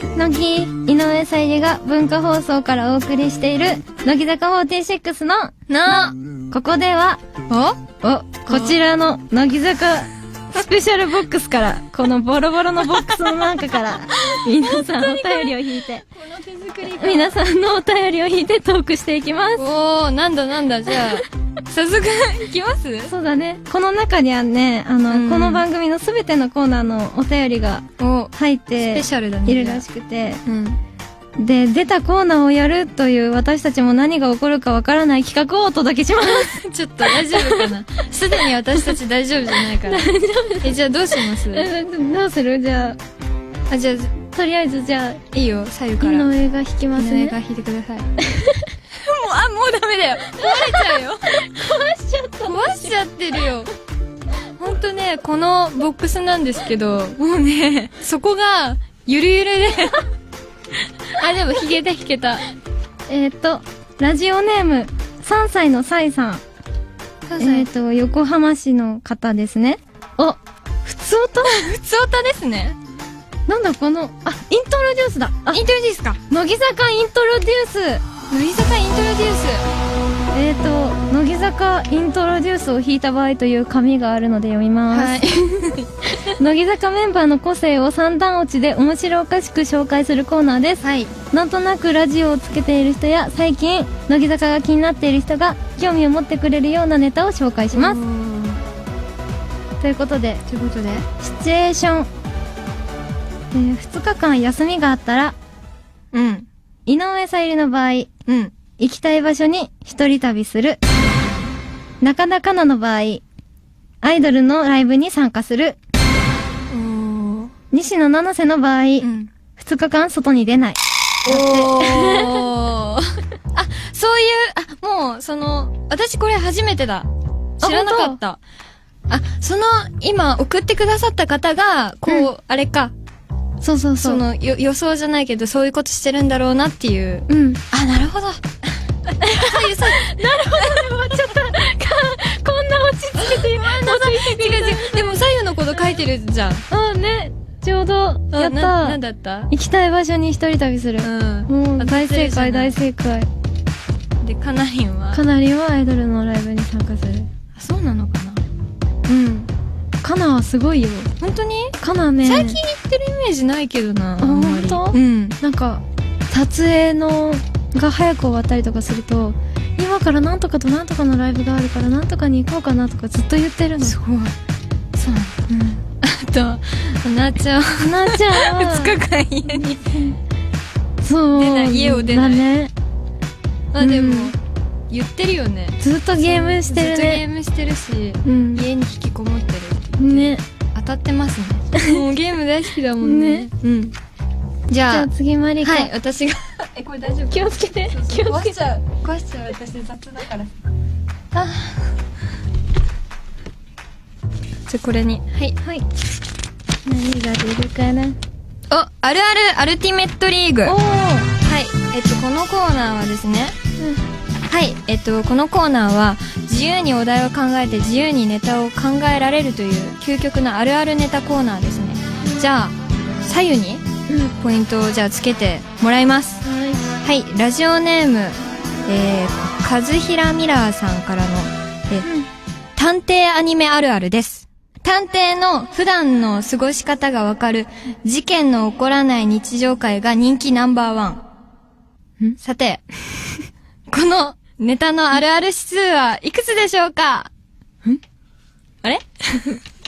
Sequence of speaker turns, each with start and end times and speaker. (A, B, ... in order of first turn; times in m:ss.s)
0:00.2-0:07.2 A
0:05.7-0:06.2 B
0:07.5-0:08.8 B
0:08.0-0:16.0 A
0:14.5-0:15.6 B
0:16.1-0:17.4 B
0:16.9-0:19.7 A
0:19.6-0:23.1 B
0:23.1-0:30.4 A
0:25.1-0:25.6 B
0:28.0-0:29.8 B
0:30.5-0:30.8 B
0:31.4-0:37.7 A
0:36.2-0:40.1 B
0:39.8-0:43.0 A
0:40.6-0:41.7 B
0:43.7-0:44.2 B
0:44.3-0:45.2 A
0:45.3-0:46.3 B
0:46.0-0:47.4 A
0:47.0-0:48.1 B
0:48.2-0:48.7 A
0:48.9-0:51.4 B
0:50.2-0:53.0 A
0:52.4-0:53.7 B
0:54.6-1:00.0 B
1:01.1-1:02.4 B
1:03.1-1:06.4 A
1:07.3-1:07.7 B
1:07.4-1:11.8 A
1:11.4-1:12.8 B
1:13.5-1:15.6 A
1:15.5-1:16.2 B
1:16.3-1:18.0 A
1:18.3-1:19.6 B
1:20.3-1:25.4 A
1:24.9-1:25.9 B
1:26.2-1:38.0 A
1:30.8-1:31.1 B
1:37.7-1:38.6 B
1:39.8-1:40.4 A
1:40.5-1:41.1 B
1:41.2-1:42.1 A
1:43.5-1:45.4 A
1:46.1-1:46.5 B
1:46.9-1:48.1 A
1:48.3-1:48.5 B
1:48.8-1:50.8 A
1:52.0-1:53.2 A
1:54.0-1:55.8 A
1:56.7-1:57.5 B
1:57.7-2:02.5 A
1:59.0-1:59.3 B
2:01.2-2:08.4 B
2:07.6-2:08.2 A
2:09.1-2:12.9 B
2:13.6-2:14.2 A
2:14.0-2:18.6 B
2:17.3-2:17.6 A
2:19.1-2:21.1 B
2:19.2-2:26.0 A
2:23.2-2:26.7 B
2:26.7-2:29.0 A
2:28.3-2:29.5 B
2:29.5-2:33.3 A
2:31.0-2:32.8 B
2:34.2-2:35.2 B
2:35.1-2:37.3 A
2:37.6-2:38.4 B
2:39.1-2:39.5 A
2:40.0-2:41.1 A
2:41.2-2:45.4 B
2:41.8-2:42.6 A
2:44.2-2:54.0 A
2:53.8-2:54.4 B
2:55.0-2:55.5 B
2:55.5-2:55.8 A
2:56.0-2:59.8 B
2:57.8-3:00.2 A
3:01.0-3:02.7 A
3:01.3-3:02.5 B
3:03.7-3:04.4 B
3:03.8-3:04.3 A
3:04.9-3:14.0 B
3:05.8-3:07.2 A
3:08.2-3:08.7 A
3:10.0-3:10.4 A
3:11.7-3:12.0 A
3:13.0-3:13.5 A
3:14.7-3:15.1 B
3:14.9-3:15.9 A
3:15.6-3:20.6 B
3:17.3-3:18.6 A
3:21.3-3:22.0 B
3:24.7-3:25.6 B
3:26.8-3:28.2 A
3:28.7-3:30.8 B
3:30.6-3:31.3 A
3:31.3-3:33.6 B
3:34.5-3:43.8 B
3:44.1-3:44.4 A
3:44.4-3:46.4 B
3:46.4-3:47.0 A
3:47.0-3:52.1 B
3:52.0-3:52.3 A
3:52.8-4:01.2 B
4:02.4-4:07.3 B
4:08.8-4:09.6 B